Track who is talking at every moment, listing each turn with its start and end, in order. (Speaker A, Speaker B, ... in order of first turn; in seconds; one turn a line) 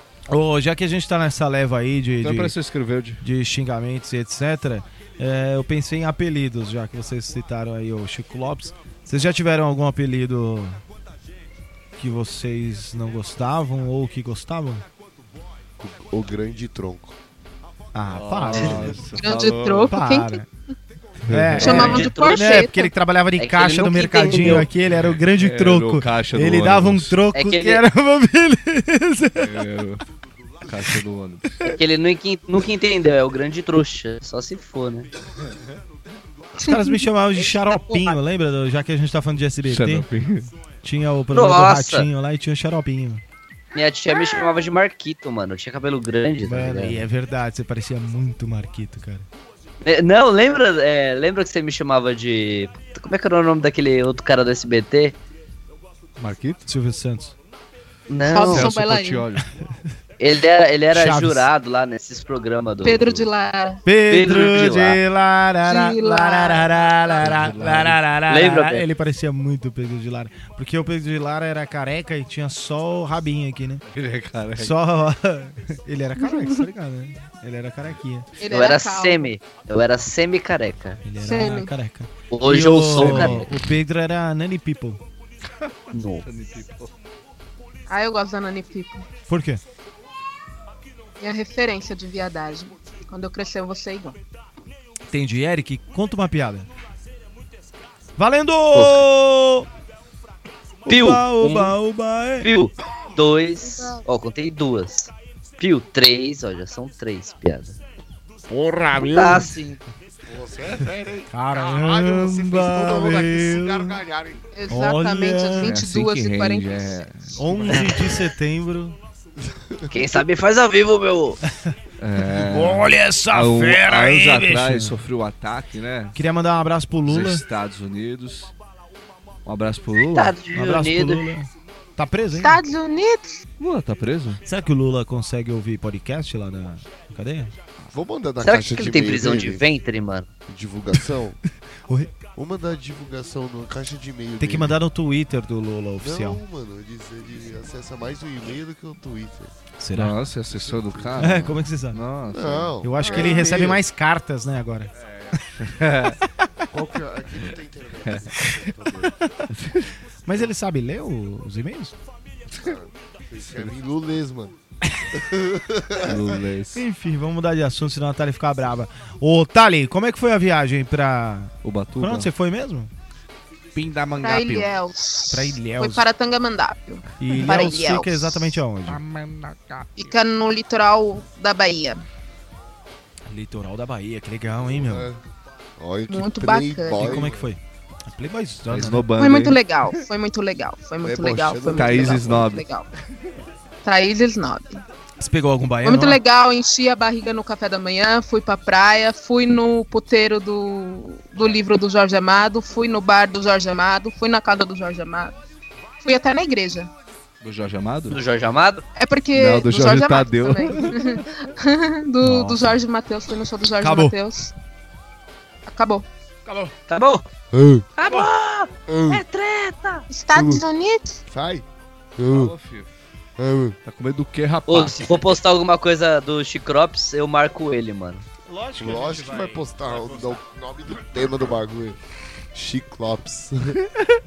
Speaker A: 0.3-2.5
Speaker B: 2.2-3.2
Speaker A: 3.2-10.8
Speaker A: 12.0-14.8
Speaker C: 15.8-17.1
Speaker A: 17.9-19.0
Speaker B: 18.1-19.9
Speaker D: 19.1-20.4
Speaker A: 19.9-20.4
Speaker B: 21.3-22.1
Speaker A: 21.3-29.6
Speaker E: 21.6-22.5
Speaker D: 21.6-22.9
Speaker E: 23.4-24.7
Speaker B: 24.4-27.2
Speaker E: 27.3-27.8
Speaker B: 29.4-30.0
Speaker B: 30.6-31.4
Speaker E: 31.7-35.1
Speaker D: 36.6-38.1
Speaker A: 36.6-40.1
Speaker B: 39.6-40.5
Speaker A: 40.8-43.2
Speaker E: 41.3-42.1
Speaker E: 43.7-47.0
Speaker D: 44.1-44.5
Speaker A: 46.4-49.2
Speaker E: 49.8-55.2
Speaker B: 56.2-56.6
Speaker A: 56.6-57.3
Speaker E: 58.1-58.7
Speaker D: 58.3-59.3
Speaker B: 58.5-59.4
Speaker E: 60.2-63.1
Speaker A: 60.9-61.5
Speaker D: 62.8-63.8
Speaker A: 63.8-73.8
Speaker E: 64.1-65.0
Speaker D: 65.6-67.3
Speaker B: 67.2-68.0
Speaker E: 68.3-68.8
Speaker B: 73.9-74.7
Speaker A: 74.5-78.3
Speaker D: 78.4-79.3
Speaker E: 78.5-81.0
Speaker A: 81.0-85.0
Speaker D: 81.2-81.7
Speaker E: 82.3-83.7
Speaker E: 85.9-86.2
Speaker B: 86.2-86.9
Speaker D: 87.9-89.0
Speaker A: 89.3-89.6
Speaker D: 91.2-94.2
Speaker A: 95.1-96.7
Speaker A: 98.2-99.7
Speaker E: 98.7-99.0
Speaker A: 100.8-102.5
Speaker E: 100.8-101.8
Speaker E: 102.4-107.8
Speaker D: 103.6-104.0
Speaker A: 108.5-109.5
Speaker E: 108.9-109.8
Speaker C: 109.0-109.4
Speaker C: 110.3-114.5
Speaker A: 111.3-114.0
Speaker D: 114.5-117.1
Speaker A: 114.7-115.8
Speaker B: 115.6-118.0
Speaker A: 117.3-119.0
Speaker E: 117.7-118.0
Speaker C: 119.8-120.2
Speaker E: 119.9-121.4
Speaker B: 122.0-126.2
Speaker A: 122.3-125.0
Speaker A: 126.1-127.4
Speaker B: 127.1-128.5
Speaker B: 129.4-130.4
Speaker E: 130.1-131.2
Speaker A: 130.5-132.6
Speaker D: 132.4-133.4
Speaker B: 133.6-134.4
Speaker A: 134.4-137.5
Speaker C: 137.9-139.7
Speaker E: 138.4-140.3
Speaker C: 140.5-141.4
Speaker A: 141.9-142.1
Speaker C: 142.3-144.8
Speaker A: 144.4-146.4
Speaker C: 146.0-149.5
Speaker A: 149.8-150.2
Speaker B: 149.9-152.8
Speaker C: 150.5-151.4
Speaker A: 151.2-152.0
Speaker C: 152.3-153.8
Speaker A: 152.8-155.4
Speaker D: 153.0-153.5
Speaker B: 154.9-156.2
Speaker C: 156.7-159.2
Speaker A: 159.2-159.5
Speaker B: 159.5-159.9
Speaker A: 160.2-162.0
Speaker C: 162.6-164.5
Speaker C: 165.2-166.1
Speaker B: 166.0-166.8
Speaker A: 166.7-172.9
Speaker B: 171.6-172.3
Speaker B: 173.7-174.7
Speaker D: 174.2-178.5
Speaker A: 175.3-176.1
Speaker A: 177.2-179.0
Speaker B: 178.8-180.1
Speaker D: 180.0-182.0
Speaker A: 183.3-185.1
Speaker C: 184.6-185.2
Speaker C: 185.8-187.5
Speaker D: 186.1-187.3
Speaker A: 186.9-189.1
Speaker B: 188.7-190.0
Speaker D: 189.2-192.9
Speaker C: 191.0-192.6
Speaker B: 191.7-192.7
Speaker D: 193.8-194.8
Speaker A: 195.2-196.2
Speaker D: 195.8-205.3
Speaker D: 206.0-206.9
Speaker B: 207.4-208.2
Speaker E: 208.1-208.8
Speaker D: 208.9-214.5
Speaker B: 209.3-211.2
Speaker A: 212.2-212.8
Speaker A: 213.8-214.1
Speaker D: 215.7-216.0
Speaker A: 216.4-216.7
Speaker E: 216.9-217.3
Speaker C: 217.5-217.9
Speaker E: 217.9-220.1
Speaker C: 218.9-219.2
Speaker D: 220.1-221.2
Speaker C: 220.3-220.6
Speaker C: 221.3-221.7
Speaker C: 222.2-222.5
Speaker B: 222.3-222.9
Speaker C: 223.4-223.8
Speaker B: 223.8-225.4
Speaker E: 224.7-228.2
Speaker A: 228.5-230.4
Speaker C: 228.8-232.0
Speaker C: 232.5-233.8